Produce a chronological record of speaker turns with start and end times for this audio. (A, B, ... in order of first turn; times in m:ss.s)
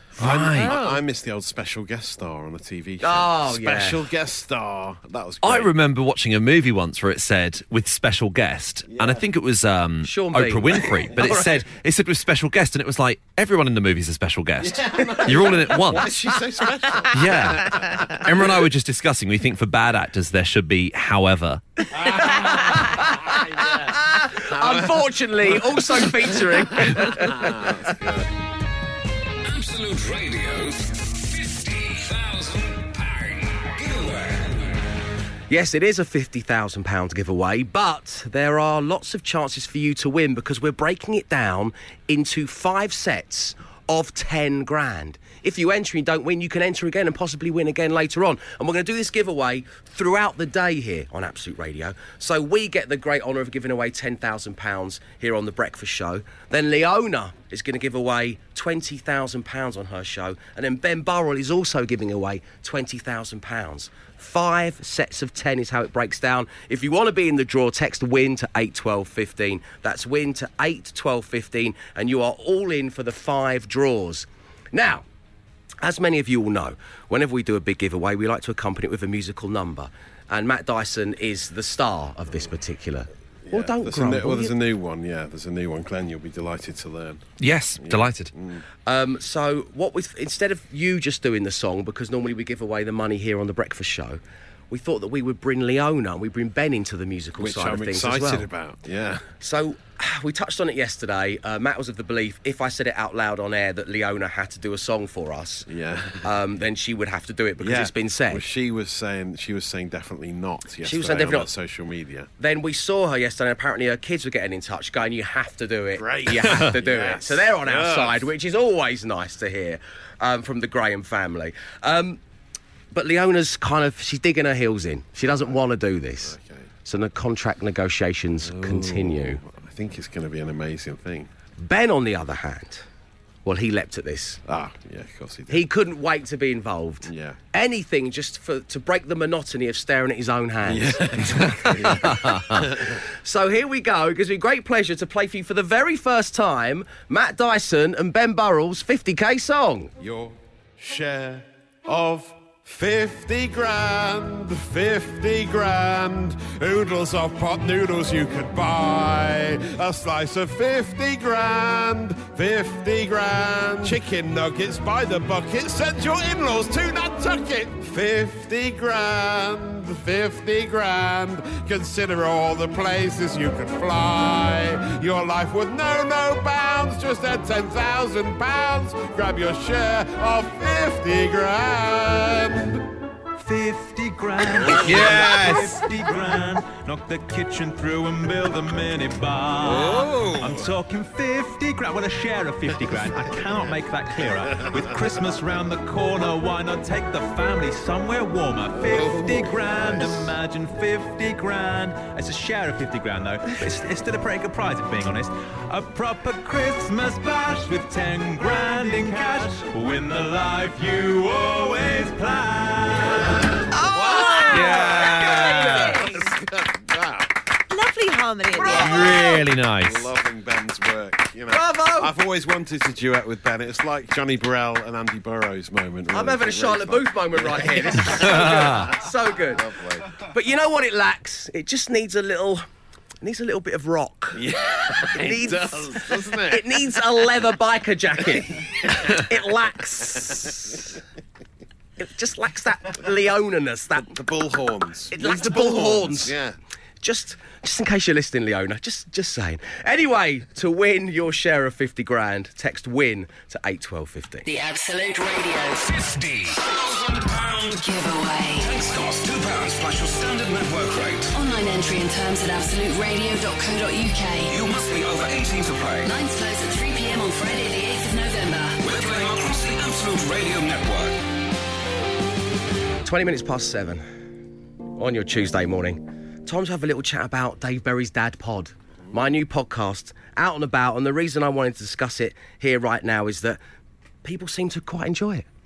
0:00.2-0:05.7 A
0:00.2-0:00.8 B
0:00.2-0:01.0 C
0:03.0-0:04.0 C
0:05.4-0:16.1 B
0:08.9-0:09.2 A
0:10.0-0:11.6 C
0:14.6-0:18.5 A
0:17.1-0:21.8 B
0:21.9-0:28.3 A
0:22.0-0:28.0 C
0:29.4-0:34.8 D
0:35.5-1:15.0 C
1:15.8-1:24.6 C
1:23.5-1:27.3 A
1:27.4-1:28.3 B
1:27.8-1:28.6 A
1:28.9-1:38.5 C
1:37.4-1:39.3 A
1:39.4-1:48.5 C
1:45.7-1:46.3 A
1:47.6-1:52.3 A
1:50.8-1:51.5 C
1:52.4-2:02.2 C
1:56.0-1:58.3 A
2:02.9-2:09.4 C
2:06.2-2:06.7 A
2:08.4-2:11.3 A
2:11.6-2:12.9 C
2:13.4-2:14.4 C
2:14.5-2:15.7 A
2:15.5-2:29.9 C
2:17.0-2:17.4 A
2:20.6-2:23.0 A
2:30.0-3:02.9 A
3:03.4-3:33.6 E
3:04.5-3:05.8 A
3:04.9-3:05.4 B
3:09.6-3:10.7 A
3:12.8-3:13.7 A
3:14.3-3:15.2 A
3:18.7-3:20.3 A
3:33.2-3:37.4 A
3:33.8-3:36.3 F
3:34.5-3:36.1 B
3:37.7-3:39.3 F
3:38.6-3:39.1 C
3:38.6-3:40.1 B
3:39.0-3:50.2 A
3:41.5-3:42.1 C
3:46.1-3:52.6 C
3:48.3-3:48.8 B
3:53.2-4:01.0 C
3:54.3-3:56.9 A
3:58.8-3:59.4 A
4:00.0-4:01.0 A
4:02.0-4:04.2 C
4:04.0-4:06.6 A
4:05.1-4:06.4 C
4:07.0-4:14.5 C
4:14.4-4:16.0 G
4:15.8-4:17.8 D
4:17.7-4:18.7 G
4:18.5-4:21.3 D
4:21.3-4:24.6 G
4:24.4-4:26.1 D
4:26.0-4:28.8 G
4:28.8-4:31.2 D
4:33.0-4:34.0 C
4:35.0-4:43.6 C
4:44.2-4:45.5 C